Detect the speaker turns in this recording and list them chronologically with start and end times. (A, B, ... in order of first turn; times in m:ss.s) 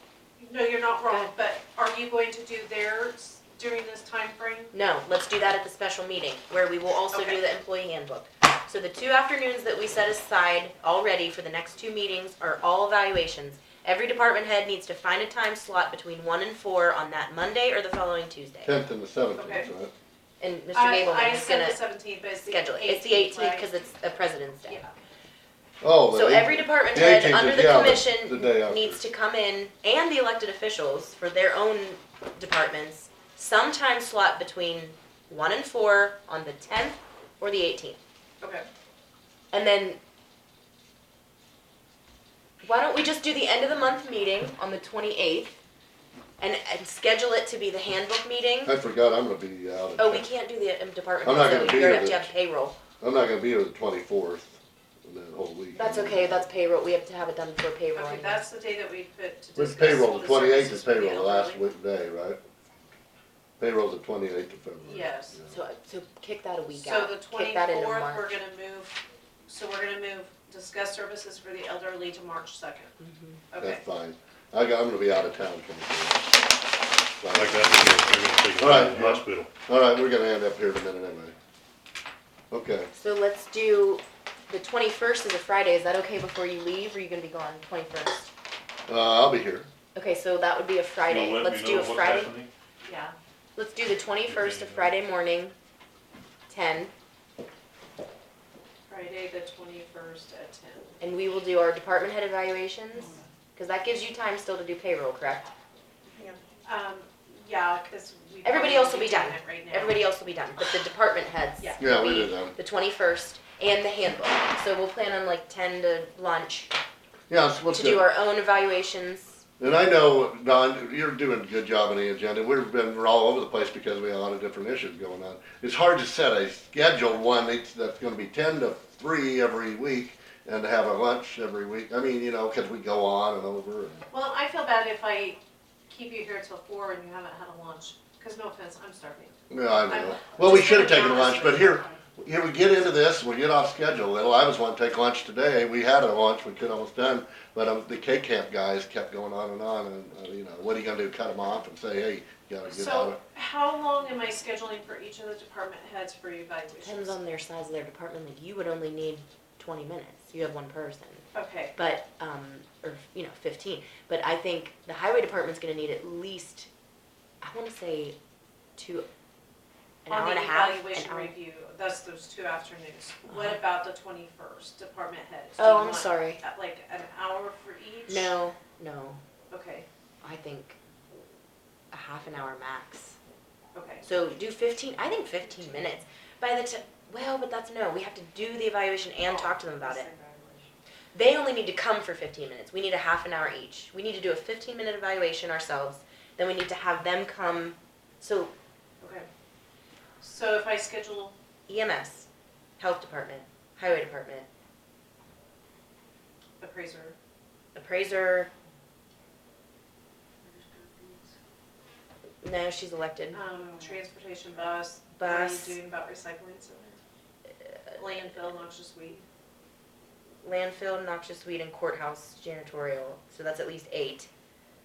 0:00.4-0:04.7 A
0:04.7-0:18.8 B
0:07.1-0:07.4 A
0:18.6-0:19.9 C
0:19.4-0:19.7 A
0:20.4-0:21.8 B
0:20.7-0:23.7 A
0:22.5-0:24.8 B
0:24.7-0:24.9 A
0:25.8-0:29.0 C
0:26.1-0:38.0 B
0:38.4-0:38.7 A
0:39.5-0:40.0 B
0:42.6-0:45.6 B
0:46.4-0:48.7 B
0:48.6-0:50.3 C
0:50.0-0:52.8 B
0:51.2-0:52.3 C
0:53.0-0:56.5 C
0:55.8-0:58.4 B
0:58.0-1:01.6 A
0:59.6-1:02.4 C
1:03.6-1:05.6 C
1:04.8-1:05.4 A
1:05.5-1:08.3 B
1:06.7-1:13.0 A
1:13.0-1:13.4 B
1:13.5-1:13.8 A
1:13.6-1:16.3 C
1:17.2-1:21.3 C
1:17.3-1:19.5 D
1:22.5-1:22.9 C
1:22.9-1:28.3 B
1:28.9-1:29.7 C
1:30.0-1:32.3 B
1:31.1-1:32.5 D
1:32.8-1:33.2 A
1:33.6-1:35.5 B
1:34.3-1:34.9 D
1:36.5-1:36.9 B
1:38.9-1:41.0 A
1:41.0-1:45.5 B
1:46.1-1:50.0 A
1:48.4-1:56.7 B
1:51.8-1:52.6 C
1:57.3-1:58.1 C
1:57.7-1:59.4 B
1:59.6-2:14.1 C
2:14.1-2:22.0 A
2:19.5-2:33.2 C
2:32.7-2:37.2 A
2:36.8-2:41.2 B
2:41.3-2:41.8 A
2:41.8-2:46.7 B
2:47.4-2:48.2 B
2:48.8-2:49.1 B
2:50.0-2:51.4 B
2:50.1-2:58.4 A
2:53.3-2:53.6 B
2:55.6-2:56.4 B
2:58.1-2:59.2 B
2:59.5-2:59.9 A
3:00.2-3:00.8 B
3:01.9-3:03.2 B
3:03.8-3:04.1 A
3:04.0-3:10.1 B
3:09.2-3:10.7 A
3:11.1-3:18.5 B
3:19.0-3:19.3 A
3:20.2-3:21.4 A
3:21.7-3:22.3 B
3:22.8-3:24.5 B
3:26.6-3:27.2 A
3:27.8-3:28.5 B
3:30.4-3:31.2 A
3:32.4-3:33.4 B
3:33.3-3:37.0 A
3:35.2-3:35.8 B
3:38.0-3:39.2 A
3:40.4-3:44.3 B